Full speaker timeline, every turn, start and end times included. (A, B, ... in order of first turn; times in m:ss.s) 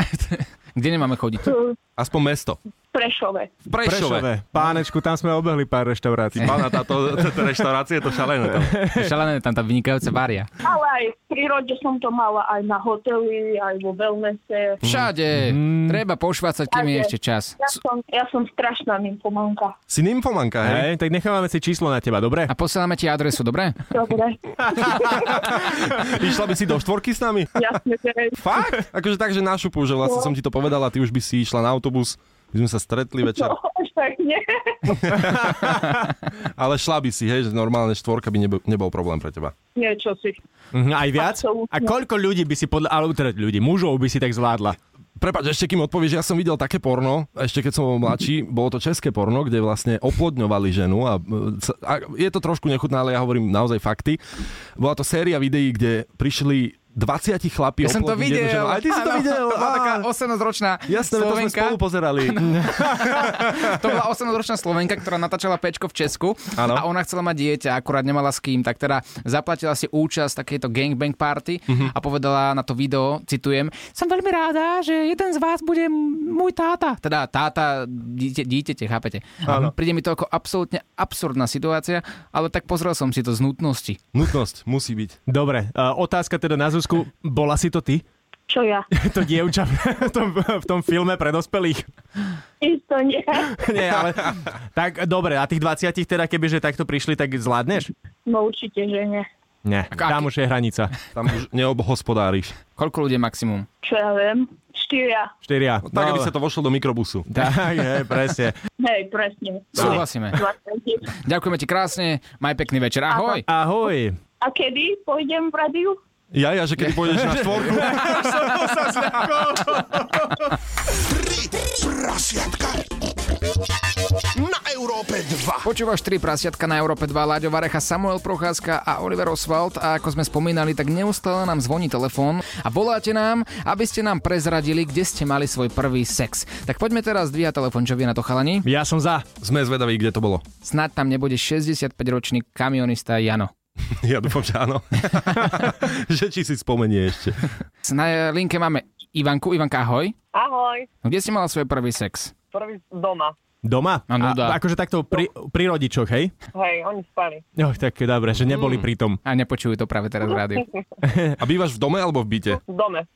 0:00.1-0:01.5 A
0:01.4-0:01.8 B
0:02.0-0:02.6 C
0:02.9-0:03.5 B
0:03.7-0:04.3 C
0:03.8-0:06.7 D
0:06.3-0:08.8 C
0:08.6-0:09.1 D
0:08.9-0:10.5 A
0:10.6-0:14.8 B
0:14.8-0:17.7 A
0:15.5-0:16.0 D
0:16.7-0:19.8 B
0:19.9-0:20.9 C
0:20.6-0:22.5 D
0:22.5-0:23.9 A
0:23.9-0:25.4 B
0:26.0-0:27.5 C
0:27.6-0:28.4 B
0:28.4-0:33.6 C
0:30.0-0:30.3 B
0:33.2-0:35.0 B
0:35.0-0:35.7 C
0:35.2-0:36.1 D
0:36.6-0:39.5 C
0:39.8-0:40.4 B
0:40.7-0:44.8 D
0:41.2-0:42.0 B
0:45.2-0:54.2 C
0:54.8-1:00.1 C
0:57.8-1:24.0 A
1:00.9-1:02.5 C
1:02.6-1:03.3 D
1:06.6-1:06.9 C
1:19.5-1:19.7 D
1:24.1-1:25.2 C
1:25.3-1:28.0 D
1:28.5-1:28.9 B
1:28.9-1:31.9 D
1:32.6-1:33.7 B
1:33.6-1:37.9 D
1:38.3-1:39.3 B
1:39.6-1:40.9 D
1:40.0-1:40.3 A
1:41.2-1:42.6 C
1:42.8-1:43.7 A
1:43.8-1:45.3 B
1:45.4-1:46.3 D
1:45.9-1:47.2 C
1:47.3-1:48.6 D
1:48.8-1:51.1 B
1:49.8-1:50.4 A
1:51.2-1:53.4 A
1:53.1-1:53.4 B
1:53.5-1:54.2 D
1:54.4-1:56.0 B
1:56.3-1:58.5 C
1:57.3-2:00.5 D
2:00.9-2:02.9 E
2:04.3-2:05.7 E
2:05.6-2:18.7 A
2:18.6-2:19.3 D
2:19.4-2:20.4 C
2:20.6-2:23.5 A
2:23.9-2:27.4 C
2:27.8-2:30.2 A
2:30.3-2:30.9 F
2:31.0-2:32.3 A
2:32.5-2:33.4 F
2:33.6-2:36.3 D
2:34.1-2:34.6 A
2:36.5-2:37.4 F
2:37.6-2:39.2 D
2:39.2-2:40.7 A
2:41.0-2:41.4 D
2:41.4-2:42.6 C
2:42.7-2:43.1 F